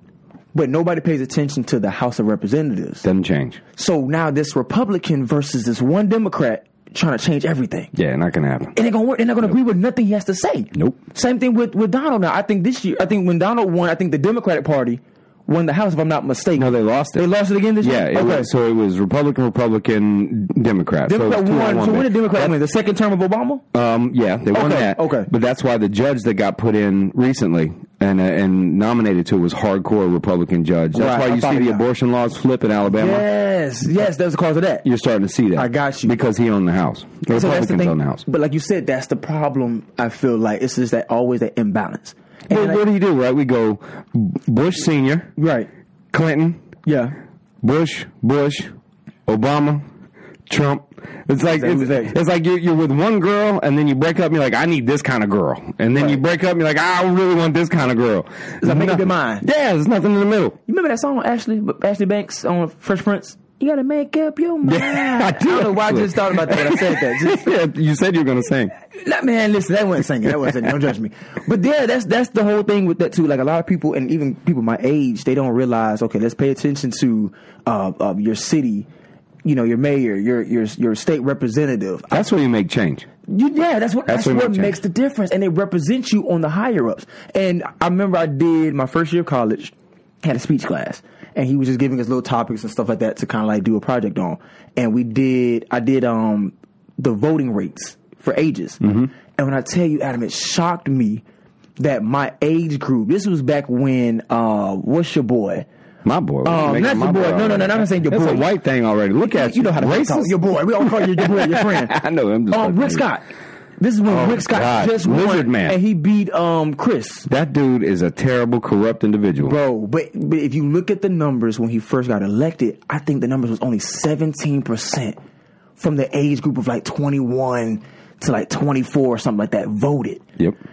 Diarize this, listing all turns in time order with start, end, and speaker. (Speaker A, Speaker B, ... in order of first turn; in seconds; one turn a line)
Speaker A: 0.5-3.1
Speaker B: 3.0-3.6
Speaker A: 3.8-7.9
Speaker B: 7.9-8.8
Speaker A: 8.8-18.5
Speaker B: 16.6-17.3
Speaker B: 17.8-22.5
Speaker A: 21.1-23.6
Speaker B: 23.7-33.2
Speaker A: 24.5-25.3
Speaker A: 30.9-31.9
Speaker A: 32.9-34.9
Speaker B: 34.8-38.2
Speaker A: 35.5-36.2
Speaker A: 37.3-42.8
Speaker B: 42.5-45.3
Speaker A: 45.4-45.7
Speaker B: 46.1-46.6
Speaker A: 46.9-47.2
Speaker B: 47.6-48.7
Speaker B: 49.3-49.9
Speaker B: 50.5-60.6
Speaker A: 51.5-52.1
Speaker A: 55.9-56.2
Speaker A: 58.6-59.5
Speaker A: 60.7-67.5
Speaker B: 64.6-68.7
Speaker A: 68.9-78.9
Speaker A: 79.4-82.3
Speaker B: 82.1-83.1
Speaker A: 83.3-101.2
Speaker B: 84.1-84.8
Speaker B: 98.8-99.1
Speaker A: 101.8-105.7
Speaker B: 106.0-113.0
Speaker A: 106.4-108.5
Speaker A: 109.2-112.0
Speaker A: 112.5-113.2
Speaker A: 113.8-117.3
Speaker B: 114.1-115.8
Speaker B: 117.3-119.6
Speaker A: 119.4-125.2
Speaker A: 125.8-130.2